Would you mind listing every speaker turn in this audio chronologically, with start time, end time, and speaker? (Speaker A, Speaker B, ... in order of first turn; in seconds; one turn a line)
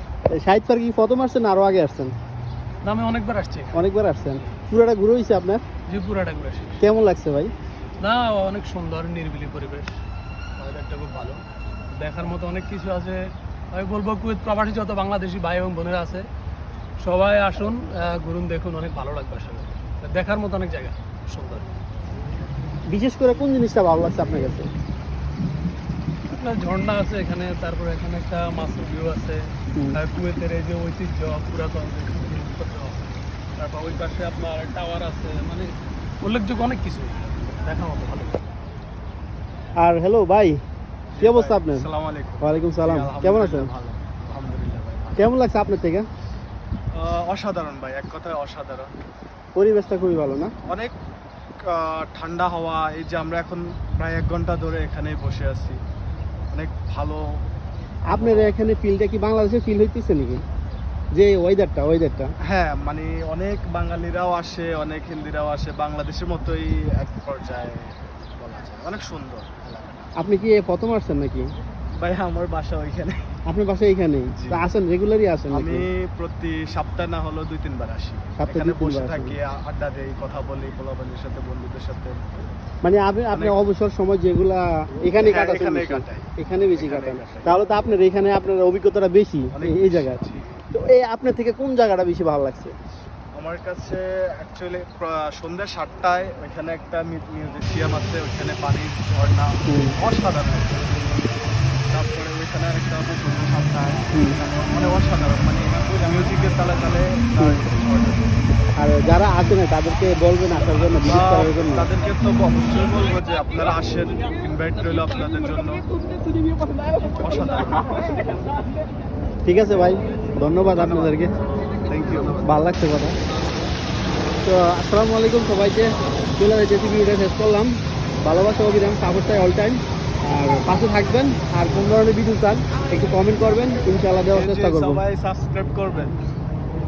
Speaker A: 0.3-2.1
Speaker B: 2.8-3.9
Speaker A: 3.7-5.6
Speaker B: 5.9-6.8
Speaker A: 6.8-7.5
Speaker B: 8.0-9.9
Speaker B: 10.6-11.4
Speaker B: 11.9-16.2
Speaker B: 17.0-21.6
Speaker A: 22.9-24.7
Speaker B: 26.3-29.4
Speaker B: 29.9-38.4
Speaker A: 39.8-40.6
Speaker C: 41.1-45.3
Speaker A: 41.2-41.9
Speaker A: 42.4-43.7
Speaker A: 45.2-46.0
Speaker C: 46.9-48.9
Speaker A: 49.5-50.5
Speaker C: 50.6-50.9
Speaker C: 51.6-55.8
Speaker C: 56.5-57.2
Speaker A: 58.1-60.4
Speaker C: 58.1-58.5
Speaker A: 61.1-62.3
Speaker C: 62.4-70.1
Speaker A: 70.2-71.5
Speaker C: 72.0-73.3
Speaker A: 73.5-75.9
Speaker C: 74.4-74.6
Speaker C: 75.5-82.5
Speaker A: 78.4-79.4
Speaker A: 82.8-90.2
Speaker C: 83.3-83.6
Speaker C: 85.2-87.5
Speaker C: 89.5-90.5
Speaker A: 90.7-92.7
Speaker C: 93.3-101.2
Speaker A: 99.7-99.9
Speaker C: 101.9-108.3
Speaker A: 104.1-104.4
Speaker A: 108.8-111.9
Speaker C: 111.0-115.9
Speaker C: 117.1-118.3
Speaker A: 119.5-121.3
Speaker C: 120.7-122.6
Speaker A: 122.4-123.2
Speaker A: 124.4-135.0
Speaker C: 134.3-136.2